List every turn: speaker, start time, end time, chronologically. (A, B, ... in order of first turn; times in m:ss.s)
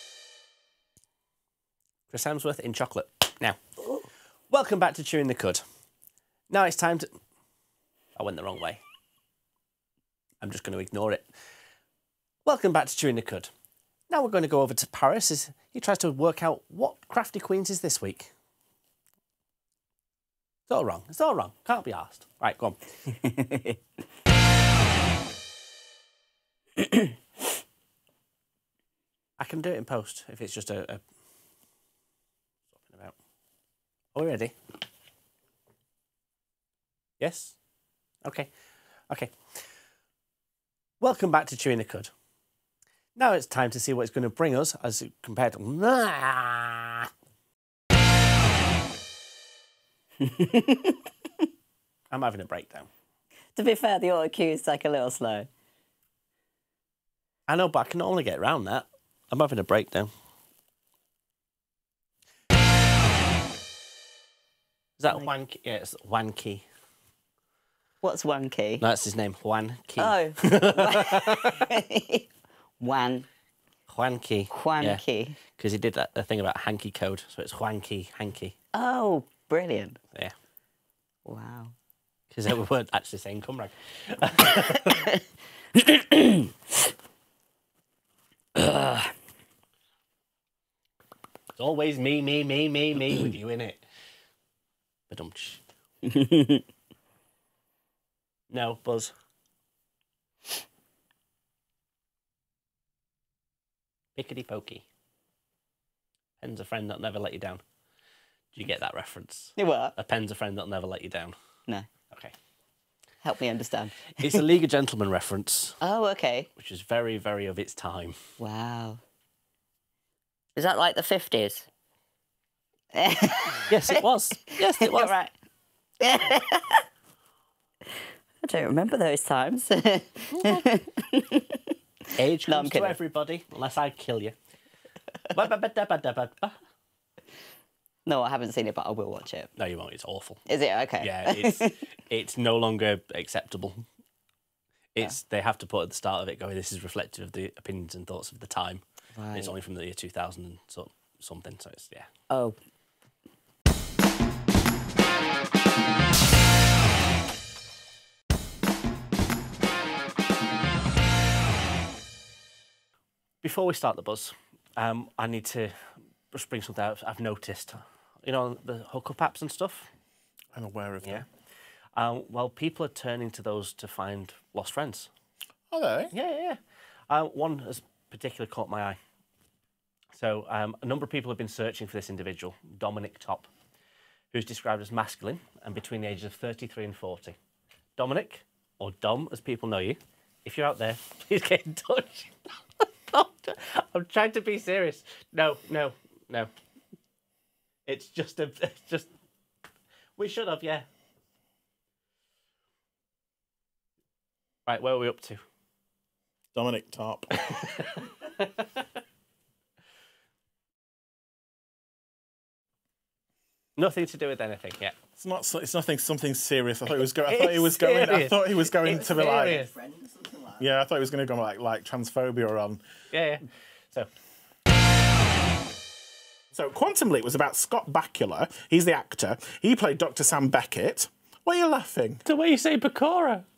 0:02.1-0:03.6 A
0:04.5-0:05.6 A
0:06.5-0:07.2 A
0:08.2-0:08.8 A
0:10.4-0:11.3 A
0:12.4-0:13.5 A
0:14.1-0:18.3 A
0:20.7-0:22.8 A
0:23.2-0:23.8 B
0:29.4-0:31.0 A
0:32.8-0:33.1 A
0:34.1-0:34.5 A
0:37.2-0:37.6 A
0:38.2-0:38.5 A
0:39.1-0:39.4 A
0:41.0-0:42.1 A
0:43.2-0:47.1 A
0:50.2-0:51.0 B
0:52.1-0:52.9 A
0:53.5-0:55.5 B
0:57.5-1:00.1 A
1:05.0-1:06.6 A
1:08.0-1:08.8 B
1:08.8-1:11.6 A
1:10.0-1:12.2 B
1:12.8-1:13.2 B
1:13.9-1:15.0 A
1:14.5-1:15.4 B
1:15.6-1:18.5 A
1:18.7-1:20.0 B
1:21.2-1:21.7 B
1:22.3-1:25.1 A
1:25.8-1:26.4 B
1:28.6-1:29.1 B
1:31.6-1:33.8 A
1:35.1-1:35.6 A
1:36.1-1:36.6 B
1:38.5-1:39.1 A
1:44.2-1:44.8 A
1:46.4-1:47.6 A
1:48.5-1:51.4 A
1:49.6-1:49.9 B
1:53.2-1:54.5 B
1:54.2-1:55.8 A
1:55.8-1:56.5 B
1:56.6-1:58.2 A
1:58.4-1:59.0 B
2:00.5-2:01.7 B
2:02.9-2:05.3 B
2:03.7-2:05.1 A
2:06.0-2:06.8 B
2:08.4-2:11.6 B
2:10.3-2:10.7 A
2:12.1-2:14.4 A
2:12.5-2:13.0 B
2:15.3-2:16.6 A
2:18.0-2:19.5 B
2:19.6-2:20.4 A
2:20.5-2:21.8 B
2:21.0-2:23.8 A
2:24.9-2:32.1 A
2:29.1-2:29.5 B
2:32.3-2:32.6 B
2:43.4-2:49.9 A
2:50.5-2:51.2 C
2:51.9-2:55.1 A
2:55.7-2:56.1 C
2:56.1-2:59.0 A
3:00.1-3:03.5 A
3:04.3-3:07.4 A
3:08.0-3:16.5 A
3:17.8-3:19.1 A
3:20.2-3:20.9 A
3:24.7-3:25.4 A
3:26.5-3:27.8 C
3:33.8-3:34.9 A
3:35.2-3:39.7 C
3:37.2-3:39.7 A
3:40.6-3:42.8 C
3:43.1-3:44.1 A
3:46.5-3:52.2 C
3:52.2-3:53.4 A